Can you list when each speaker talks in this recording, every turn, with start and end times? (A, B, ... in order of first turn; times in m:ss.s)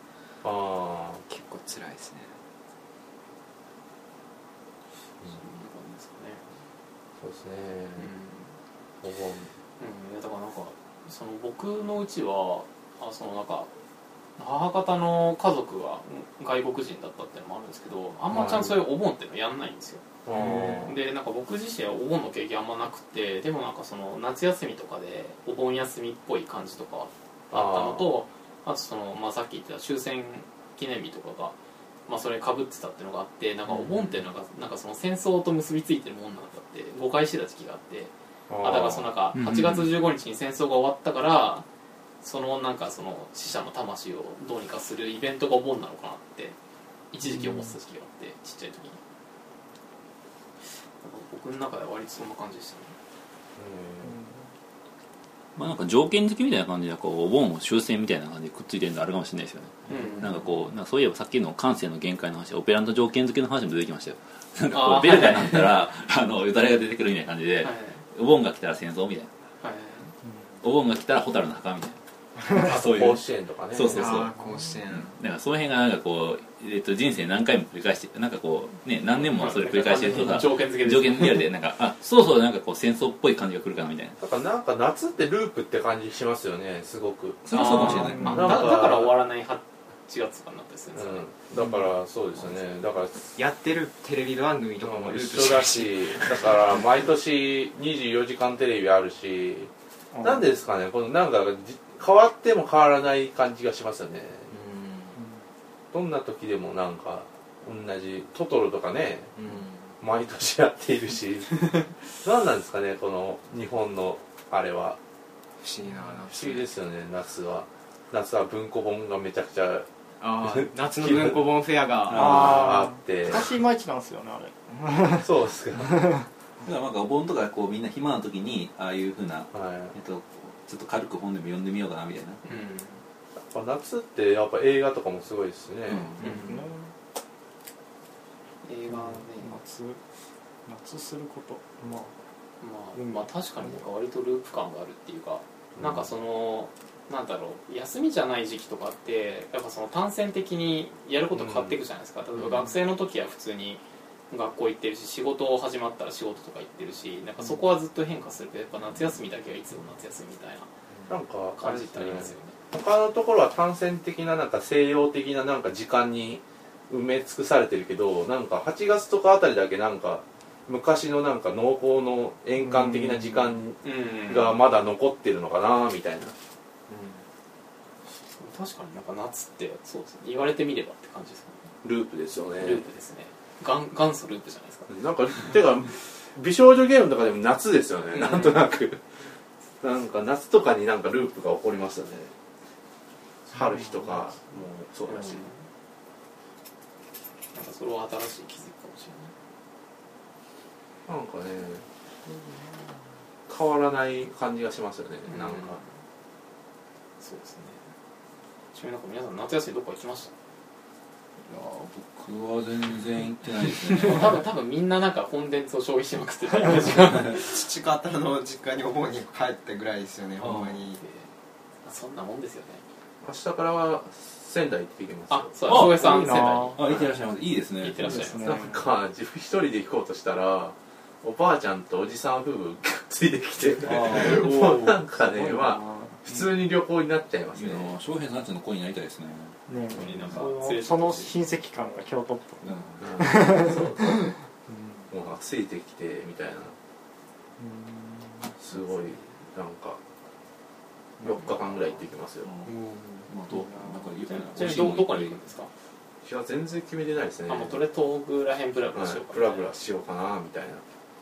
0:00.4-0:01.2 A
0:01.2-0:02.4 B
0:05.3-0:06.6 C
0:07.2-0:08.1 A
0:08.0-0:08.5 C
0:09.0-0:09.5 A
0:09.8-0:13.7 C
0:14.4-0:31.5 C
0:18.3-0:18.8 A
0:20.2-0:21.0 A
0:27.5-0:28.1 A
0:32.1-0:41.6 C
0:33.7-0:34.2 A
0:38.5-0:39.1 A
0:39.3-0:39.9 D
0:42.2-0:46.6 C
0:47.1-0:49.0 C
0:51.0-0:52.9 C
0:53.6-0:54.2 A
0:54.0-0:54.3 E
0:55.6-1:09.3 D
0:59.9-1:00.4 C
1:04.7-1:05.8 C
1:07.6-1:08.0 C
1:09.6-1:10.1 C
1:10.6-1:12.0 D
1:12.5-1:14.3 A
1:12.5-1:14.3 D
1:13.9-1:15.1 B
1:14.9-1:24.2 D
1:19.2-1:21.5 C
1:24.2-1:29.2 A
1:27.4-1:28.6 D
1:27.5-1:31.2 C
1:28.2-1:28.4 E
1:30.9-1:33.3 A
1:33.4-1:36.6 B
1:34.8-1:39.7 A
1:40.1-1:40.5 E
1:40.2-1:44.5 A
1:44.5-1:45.2 B
1:45.9-1:49.3 A
1:49.4-1:50.0 B
1:50.0-1:55.0 A
1:55.6-1:56.7 B
1:56.3-1:59.9 A
2:00.2-2:02.6 B
2:00.4-2:01.4 A
2:02.1-2:02.6 D
2:02.1-2:03.5 A
2:02.1-2:06.2 E
2:05.1-2:06.2 A
2:06.6-2:12.4 D
2:09.5-2:09.9 A
2:12.4-2:13.0 C
2:13.5-2:16.3 A
2:15.9-2:16.2 D
2:16.2-2:16.5 C
2:16.2-2:16.9 E
2:18.6-2:19.6 C
2:18.9-2:20.0 E
2:20.6-2:22.2 E
2:22.6-2:40.7 C
2:22.9-2:23.8 E
2:25.8-2:26.0 A
2:31.3-2:31.8 A
2:41.1-2:56.3 A
2:41.6-2:42.6 C
2:52.7-2:53.1 E
2:53.8-2:54.6 C
2:56.9-2:57.2 B
2:58.2-3:01.7 C
3:01.8-3:02.8 A
3:02.6-3:04.9 C
3:04.9-3:09.0 A
3:08.2-3:08.6 C
3:09.8-3:12.3 A
3:13.5-3:15.4 A
3:15.1-3:15.6 C
3:17.5-3:19.3 C
3:21.1-3:21.8 A
3:23.5-3:25.8 A
3:25.3-3:25.9 C
3:27.2-3:27.8 C
3:28.7-3:30.3 C
3:31.4-3:34.4 D
3:34.0-3:37.5 C
3:37.2-3:41.0 B
3:40.4-3:40.8 D
3:41.0-3:41.3 C
3:41.8-3:42.8 C
3:43.2-3:45.5 A
3:45.3-3:47.0 C
3:45.7-3:48.3 D
3:45.7-3:46.8 E
3:47.8-3:48.6 C
3:48.0-3:48.8 E
3:48.4-3:58.0 A
3:53.8-3:55.0 D
3:53.9-3:56.2 E
3:57.5-4:00.5 D
3:59.7-4:05.0 E
3:59.9-4:01.3 C
4:02.6-4:03.0 D
4:03.0-4:04.3 A
4:05.1-4:06.7 A
4:07.6-4:08.5 E
4:08.6-4:10.0 A
4:09.0-4:09.3 C
4:11.2-4:12.5 A
4:12.4-4:12.7 D
4:12.6-4:13.3 B
4:13.3-4:15.4 D
4:13.5-4:14.1 E
4:14.2-4:15.7 C
4:16.2-4:17.8 A
4:17.5-4:19.7 C
4:18.9-4:20.8 A